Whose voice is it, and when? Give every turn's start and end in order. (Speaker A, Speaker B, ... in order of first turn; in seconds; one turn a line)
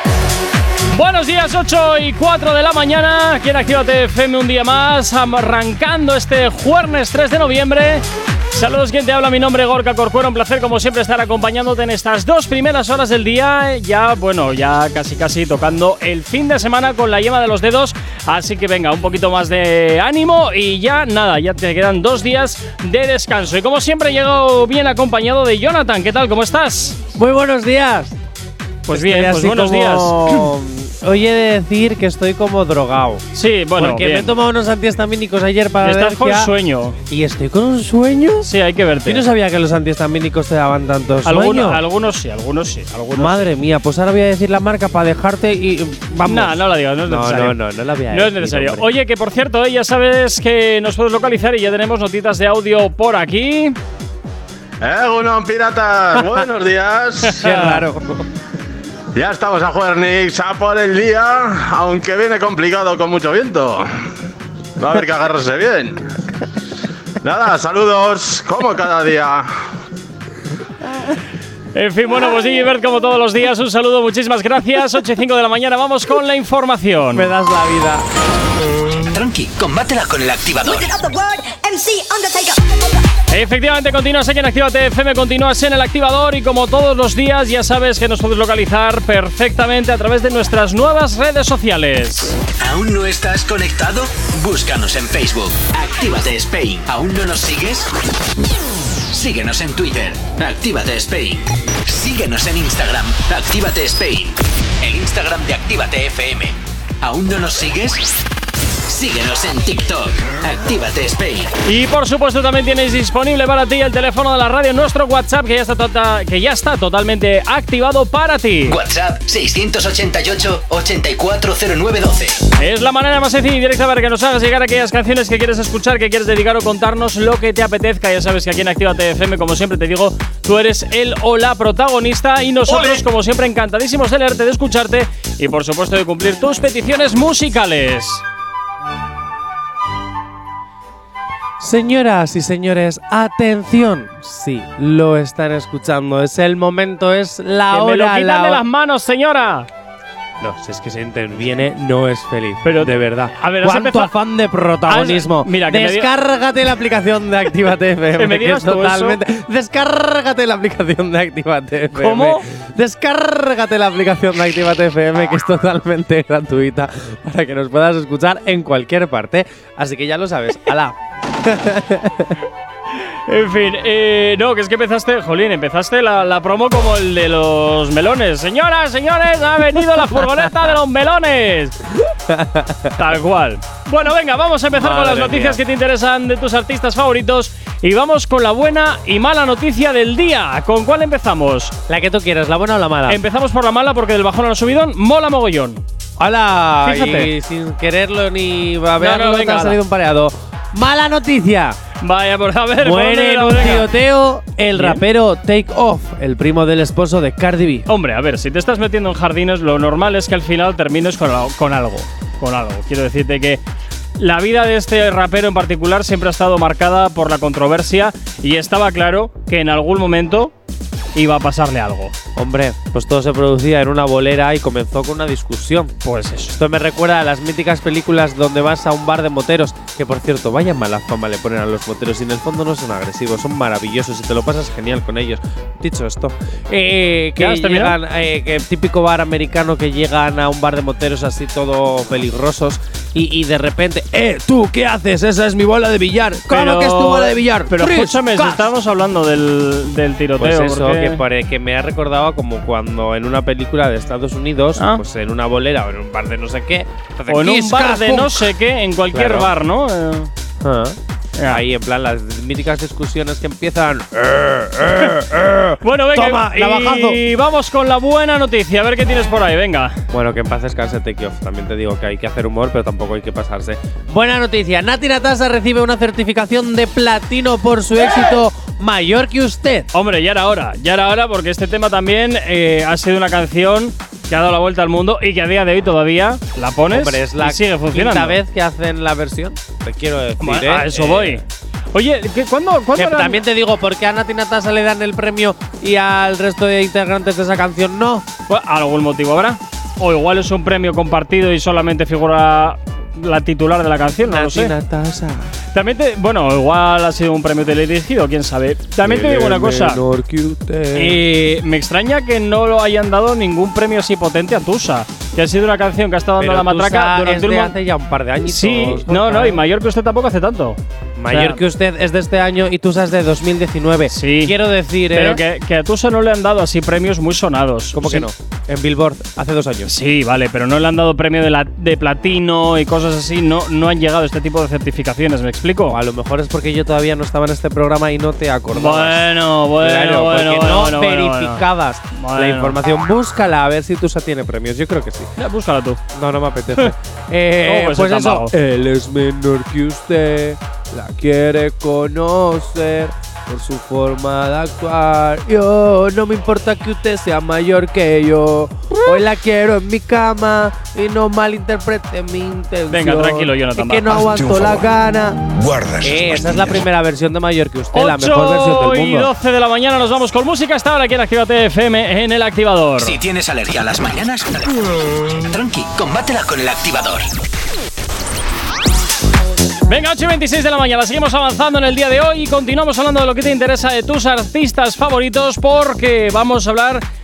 Speaker A: 0.9-27.0
Speaker B: 27.1-28.2
Speaker A: 28.9-30.5
Speaker B: 28.9-36.5
Speaker A: 33.3-34.3
Speaker A: 35.8-37.0
Speaker B: 37.1-38.5
Speaker A: 38.4-39.2
Speaker B: 39.0-41.8
Speaker A: 41.2-43.5
Speaker B: 43.1-48.9
Speaker A: 46.2-47.6
Speaker A: 48.1-53.8
Speaker C: 54.8-57.4
Speaker B: 57.3-58.3
Speaker A: 57.4-57.8
Speaker C: 59.1-63.9
Speaker C: 64.8-66.0
Speaker C: 67.2-69.5
Speaker A: 71.7-77.3
Speaker B: 77.1-78.0
Speaker D: 79.0-80.9
Speaker E: 80.6-83.1
Speaker A: 83.3-92.4
Speaker D: 92.6-97.9
Speaker D: 99.1-108.2
Speaker D: 108.9-111.5
Speaker A: 111.7-118.8
Speaker D: 118.7-122.4
Speaker A: 122.6-138.2
Speaker B: 132.7-133.0
Speaker B: 141.6-148.6
Speaker A: 147.7-149.7
Speaker B: 150.4-172.4
Speaker A: 152.6-154.1
Speaker A: 154.9-156.1
Speaker A: 158.2-159.2
Speaker A: 161.9-162.5
Speaker A: 173.3-181.8
Speaker B: 182.3-182.9
Speaker A: 182.9-191.7
Speaker B: 184.7-185.6
Speaker B: 191.9-193.2
Speaker A: 193.1-195.8
Speaker B: 196.2-201.8
Speaker A: 196.8-197.3
Speaker A: 199.0-199.8
Speaker A: 202.0-203.9
Speaker B: 202.8-207.9
Speaker A: 204.7-205.0
Speaker A: 207.9-213.6
Speaker A: 214.2-220.5
Speaker A: 221.1-222.1
Speaker B: 222.3-225.9
Speaker A: 226.0-226.6
Speaker B: 226.5-248.7
Speaker A: 237.4-238.0
Speaker A: 246.5-251.2
Speaker B: 250.4-258.5
Speaker A: 254.8-255.0
Speaker A: 257.3-260.3
Speaker B: 259.1-259.5
Speaker B: 260.6-267.2
Speaker A: 261.4-261.6
Speaker A: 265.8-270.0
Speaker B: 270.1-279.9
Speaker A: 279.9-288.4
Speaker B: 286.9-291.4
Speaker A: 290.4-293.4
Speaker B: 292.9-298.3
Speaker A: 298.5-304.7
Speaker B: 304.2-305.5
Speaker A: 305.7-310.0
Speaker B: 309.0-311.2
Speaker A: 310.9-317.8
Speaker B: 316.4-319.6
Speaker A: 318.4-320.8
Speaker B: 321.1-325.4
Speaker A: 321.3-321.6
Speaker A: 324.1-324.5
Speaker A: 325.1-328.3
Speaker B: 327.9-329.9
Speaker A: 329.9-336.0
Speaker B: 335.9-345.3
Speaker A: 338.7-342.8
Speaker A: 345.4-346.0
Speaker B: 346.1-369.3
Speaker A: 347.6-348.5
Speaker A: 362.9-364.2
Speaker A: 367.9-373.2
Speaker D: 373.0-377.3
Speaker A: 379.9-387.0